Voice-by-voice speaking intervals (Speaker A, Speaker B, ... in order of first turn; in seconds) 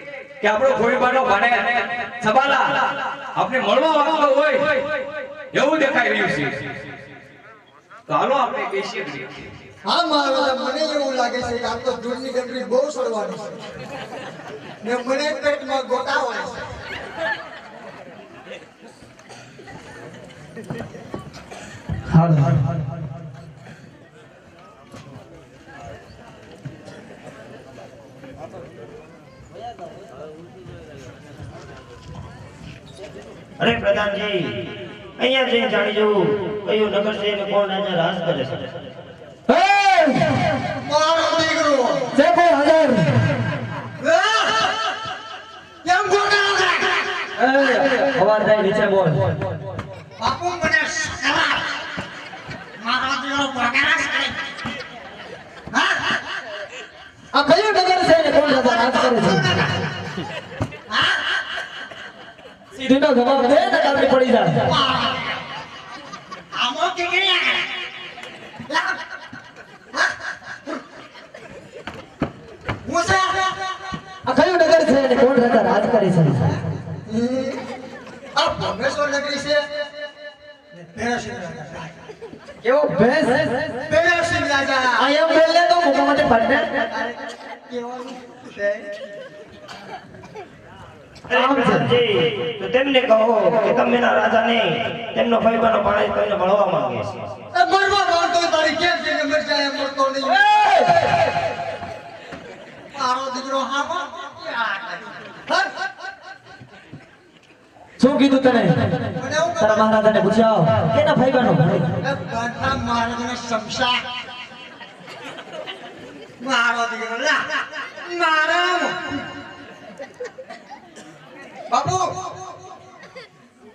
Speaker A: 0.4-5.0, 5.5-6.7, 8.1-9.4
Speaker B: 9.9-13.5, 14.8-16.6, 40.7-42.1, 44.0-44.8, 45.8-47.0, 50.2-51.7, 52.8-54.4, 55.7-56.0, 58.5-59.7, 60.9-61.2, 64.7-65.3, 66.5-67.7, 68.7-69.0, 72.8-73.6, 77.1-77.6, 78.3-79.6, 80.8-81.9, 83.8-85.1, 86.9-88.9, 97.5-100.9, 102.9-105.7, 109.2-109.9, 112.0-114.0, 116.4-119.0, 121.7-122.1
Speaker C: 22.1-22.5, 39.5-40.4, 42.1-43.1, 47.4-49.4, 57.3-59.6, 62.8-64.7, 74.2-76.6, 82.6-83.7, 85.0-86.8, 91.3-91.9, 108.0-111.9
Speaker D: 33.6-38.7, 91.3-97.3